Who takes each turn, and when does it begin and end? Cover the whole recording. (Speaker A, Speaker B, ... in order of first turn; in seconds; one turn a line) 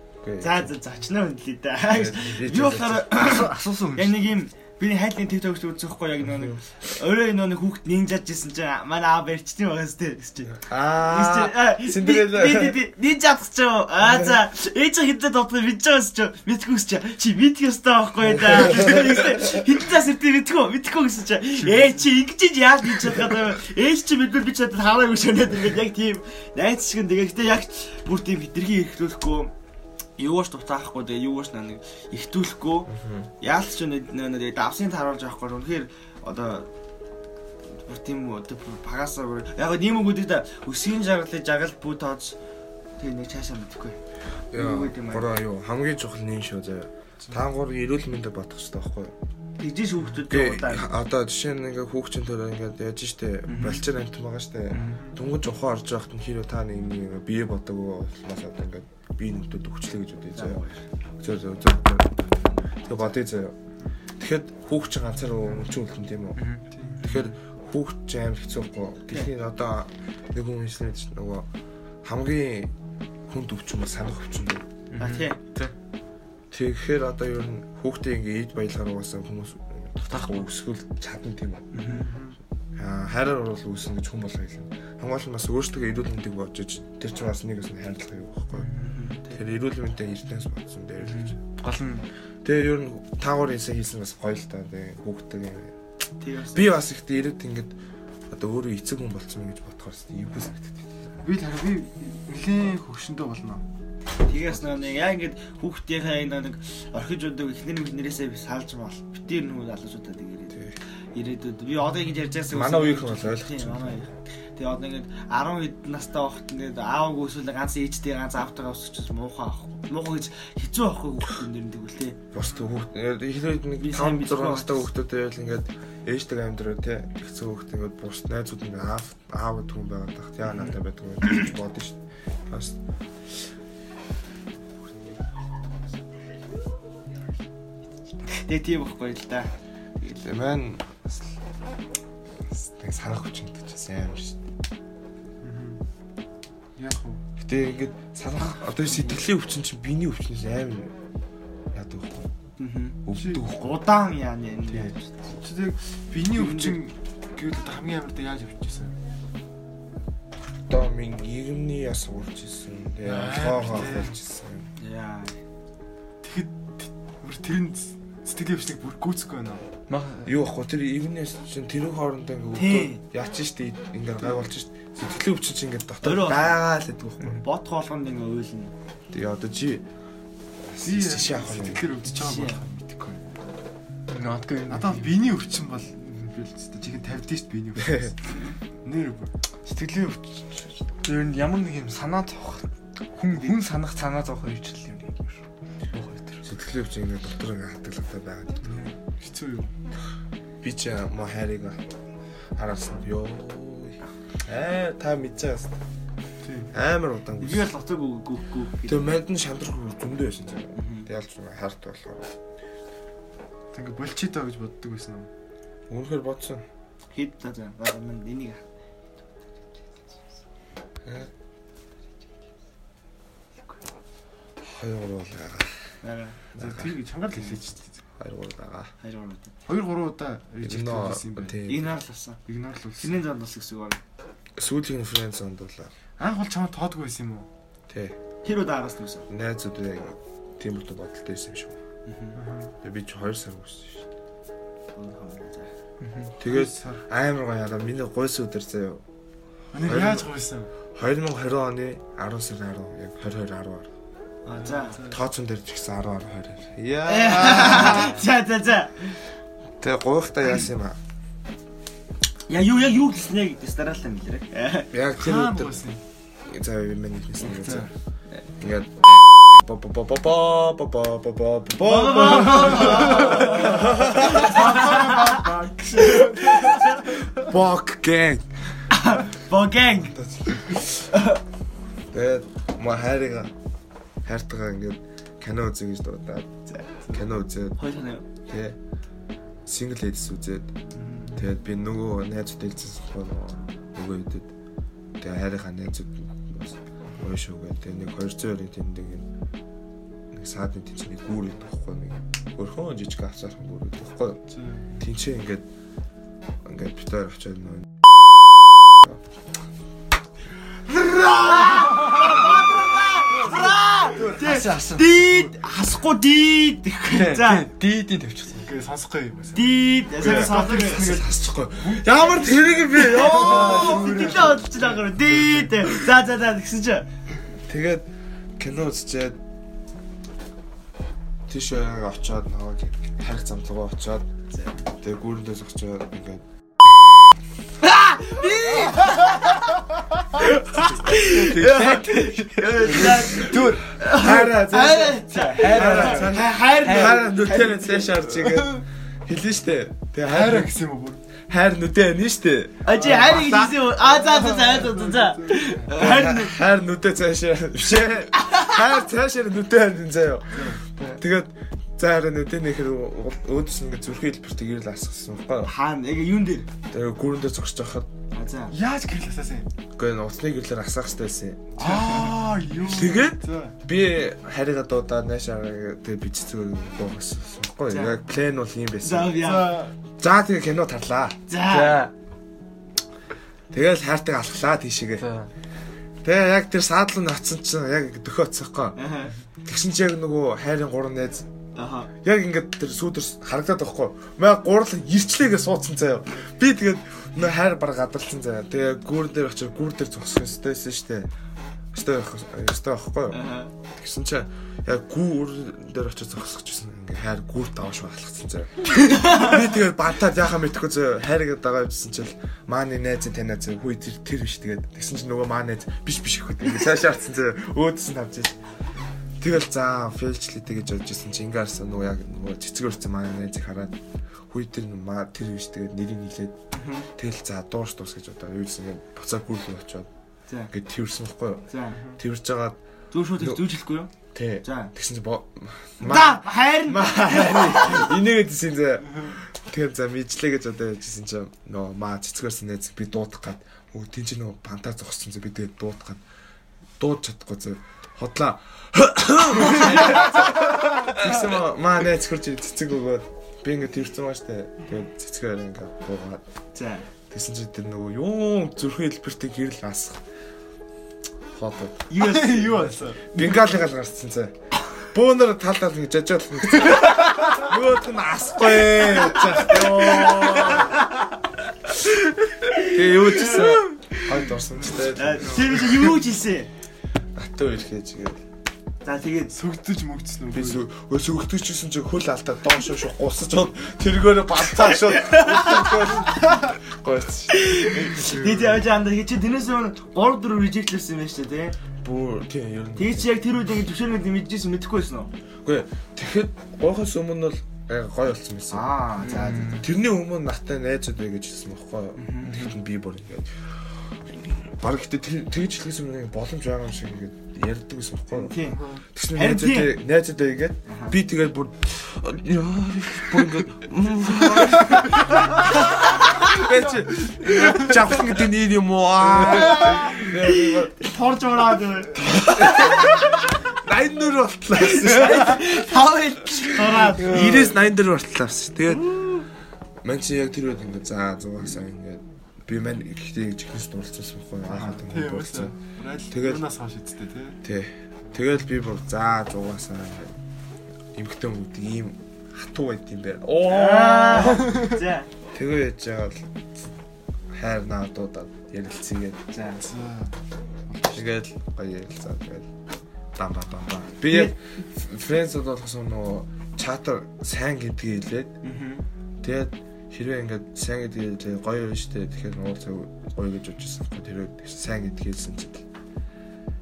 Speaker A: 0.2-0.7
Speaker B: 0.4-29.5
Speaker A: 1.9-3.3
Speaker C: 3.2-4.2
Speaker A: 6.2-6.6
Speaker A: 10.6-12.8
Speaker A: 14.0-14.4
Speaker A: 18.3-19.4
Speaker C: 21.6-22.0
Speaker B: 30.2-32.9
Speaker A: 32.9-33.3
Speaker B: 33.4-36.7
Speaker B: 37.8-42.4
Speaker B: 43.0-44.0
Speaker A: 44.5-49.1
Speaker B: 44.5-45.3
Speaker B: 49.6-50.9
Speaker A: 50.3-60.6
Speaker C: 53.5-53.8
Speaker C: 54.7-55.0
Speaker B: 60.4-60.8
Speaker A: 61.2-63.5
Speaker A: 64.2-71.5
Speaker C: 66.4-67.2
Speaker D: 66.7-67.0
Speaker A: 72.0-72.7
Speaker A: 73.3-74.7
Speaker C: 74.9-75.7
Speaker B: 75.0-75.4
Speaker A: 76.5-81.8
Speaker C: 80.1-80.5
Speaker C: 81.7-82.1
Speaker D: 81.9-82.4
Speaker A: 82.8-88.7
Speaker C: 88.6-88.9
Speaker B: 88.8-89.4
Speaker A: 89.3-91.4
Speaker C: 91.0-92.1
Speaker A: 92.4-95.7
Speaker B: 96.2-96.8
Speaker A: 96.5-97.8
Speaker A: 98.3-100.9
Speaker D: 101.2-103.6
Speaker B: 104.2-110.6
Speaker B: 111.2-122.2
Speaker A: 112.5-114.0
Speaker A: 122.3-132.8
Speaker D: 122.4-122.7
Speaker B: 123.8-124.9
Speaker B: 130.5-130.7
Speaker B: 138.3-139.5
Speaker A: 140.0-141.2
Speaker A: 142.5-144.4
Speaker D: 145.4-145.8
Speaker D: 146.8-147.2
Speaker A: 147.4-150.9
Speaker B: 148.8-149.2
Speaker A: 151.7-152.3
Speaker B: 152.6-153.0
Speaker A: 153.1-153.7
Speaker D: 153.2-153.4
Speaker B: 153.5-155.3
Speaker D: 155.3-158.9
Speaker B: 156.3-156.8
Speaker A: 160.7-164.7
Speaker D: 163.0-164.2
Speaker B: 164.8-165.4
Speaker D: 166.2-169.7
Speaker C: 169.9-170.3
Speaker A: 170.2-177.4
Speaker B: 172.6-173.0
Speaker B: 176.0-176.6
Speaker B: 177.4-178.7
Speaker A: 179.1-179.9
Speaker A: 180.7-181.9
Speaker D: 180.8-183.4
Speaker B: 182.1-182.6
Speaker C: 184.1-185.3
Speaker D: 184.7-188.2
Speaker A: 187.8-188.1
Speaker D: 188.8-189.3
Speaker C: 189.7-196.5
Speaker A: 196.4-198.7
Speaker C: 198.7-198.9
Speaker D: 199.2-199.7
Speaker A: 200.6-201.8
Speaker A: 202.6-205.8
Speaker D: 206.4-206.7
Speaker A: 206.7-207.7
Speaker B: 207.4-209.2
Speaker A: 208.9-212.4
Speaker B: 210.8-211.1
Speaker D: 213.7-215.3
Speaker A: 215.9-216.7
Speaker B: 217.1-218.7
Speaker A: 221.1-221.3
Speaker A: 224.6-225.7
Speaker B: 226.0-226.4
Speaker A: 226.5-227.0
Speaker D: 226.6-228.0
Speaker A: 228.2-228.9
Speaker B: 229.0-229.5
Speaker D: 229.7-231.6
Speaker A: 230.6-232.0
Speaker B: 231.7-232.4
Speaker D: 232.5-233.2
Speaker B: 233.0-234.0
Speaker A: 234.6-235.9
Speaker D: 236.2-237.5
Speaker A: 237.9-238.2
Speaker B: 238.4-239.3
Speaker A: 239.3-241.8
Speaker B: 242.1-242.4
Speaker D: 242.4-242.8
Speaker A: 242.8-244.1
Speaker B: 244.9-245.7
Speaker C: 246.0-246.3
Speaker A: 246.4-249.0
Speaker D: 246.4-247.0
Speaker D: 249.7-250.7
Speaker A: 249.8-250.3
Speaker A: 250.9-253.9
Speaker B: 254.4-255.0
Speaker D: 254.5-255.2
Speaker A: 255.1-258.2
Speaker B: 257.1-259.2
Speaker D: 257.4-257.8
Speaker A: 259.8-261.0
Speaker B: 262.5-264.9
Speaker A: 264.9-265.8
Speaker D: 265.1-266.0
Speaker A: 266.5-267.9
Speaker D: 267.4-267.9
Speaker A: 268.6-274.9
Speaker B: 271.8-275.4
Speaker D: 272.6-277.3
Speaker B: 276.6-277.0
Speaker A: 277.3-278.5
Speaker B: 278.9-280.2
Speaker A: 279.9-281.1
Speaker B: 281.1-281.4
Speaker A: 282.1-283.5
Speaker A: 284.2-286.5
Speaker A: 287.1-287.8
Speaker B: 287.8-288.2
Speaker A: 288.5-288.8
Speaker A: 289.7-290.7
Speaker A: 291.3-294.5
Speaker A: 295.2-299.3
Speaker A: 300.3-305.7
Speaker D: 304.5-304.9
Speaker A: 306.6-308.0
Speaker A: 308.9-309.2
Speaker B: 310.9-317.7
Speaker C: 314.2-315.4
Speaker C: 317.1-318.7
Speaker D: 318.6-321.2
Speaker B: 319.5-321.3
Speaker A: 320.2-324.5
Speaker B: 322.9-327.1
Speaker D: 323.1-325.7
Speaker A: 327.7-329.4
Speaker A: 331.5-334.3
Speaker A: 335.0-336.4
Speaker B: 337.8-339.6
Speaker B: 340.4-348.1
Speaker C: 340.9-342.9
Speaker D: 342.8-343.9
Speaker A: 344.0-350.8
Speaker D: 345.6-346.4
Speaker D: 348.4-348.8
Speaker D: 350.2-351.2
Speaker A: 351.5-353.8
Speaker B: 352.9-356.6
Speaker D: 353.0-355.9
Speaker A: 356.0-365.7
Speaker D: 360.6-360.8
Speaker B: 365.6-366.7
Speaker A: 366.9-368.1
Speaker B: 368.3-368.8
Speaker D: 368.7-369.7
Speaker A: 370.0-372.2
Speaker D: 371.8-373.8
Speaker A: 372.8-379.4
Speaker B: 377.9-378.2
Speaker B: 379.0-379.8
Speaker D: 379.4-379.9
Speaker A: 380.2-382.1
Speaker B: 381.5-382.1
Speaker A: 383.7-385.3
Speaker C: 385.2-385.5
Speaker A: 386.2-389.0
Speaker B: 389.0-389.3
Speaker A: 389.6-391.5
Speaker B: 391.8-392.1
Speaker A: 392.2-401.3
Speaker A: 401.9-403.4
Speaker B: 403.3-403.7
Speaker A: 403.9-418.6
Speaker A: 419.4-424.0
Speaker A: 424.5-426.6
Speaker B: 426.7-427.1
Speaker A: 427.1-430.1
Speaker A: 430.7-432.8
Speaker B: 431.7-432.0
Speaker B: 433.1-434.1
Speaker A: 433.4-433.7
Speaker A: 434.3-446.2
Speaker B: 434.6-434.9
Speaker B: 436.0-438.1
Speaker A: 447.0-456.4
Speaker B: 456.7-457.1
Speaker A: 457.3-460.2
Speaker A: 461.5-462.1
Speaker B: 462.1-463.1
Speaker D: 462.1-463.6
Speaker A: 463.3-471.0
Speaker B: 469.6-471.0
Speaker A: 472.8-476.1
Speaker B: 473.3-473.7
Speaker B: 474.9-476.7
Speaker A: 477.4-478.4
Speaker B: 479.0-479.6
Speaker D: 479.5-480.8
Speaker A: 480.5-488.2
Speaker B: 485.1-485.7
Speaker B: 487.5-491.8
Speaker A: 492.0-493.4
Speaker B: 493.0-495.3
Speaker A: 495.6-498.9
Speaker B: 498.7-499.8
Speaker C: 499.2-499.9
Speaker A: 499.5-503.5
Speaker B: 502.2-502.5
Speaker A: 504.3-508.6
Speaker B: 508.3-508.8
Speaker D: 508.6-509.0
Speaker A: 509.1-521.0
Speaker B: 509.3-510.0
Speaker B: 510.9-511.2
Speaker B: 516.1-516.5
Speaker D: 516.7-517.9
Speaker B: 519.4-523.2
Speaker A: 522.2-525.9
Speaker B: 524.8-527.7
Speaker A: 526.9-529.1
Speaker D: 527.3-527.7
Speaker B: 528.9-529.5
Speaker A: 530.0-535.8
Speaker D: 534.7-537.6
Speaker A: 536.3-536.7
Speaker A: 537.6-540.4
Speaker A: 541.1-544.9
Speaker B: 543.6-545.3
Speaker D: 544.6-544.9
Speaker A: 545.5-546.5
Speaker A: 547.5-549.4
Speaker B: 549.5-549.8
Speaker D: 549.8-550.4
Speaker D: 550.9-551.2
Speaker A: 551.1-552.7
Speaker A: 553.4-558.6
Speaker B: 558.6-559.1
Speaker A: 559.4-565.8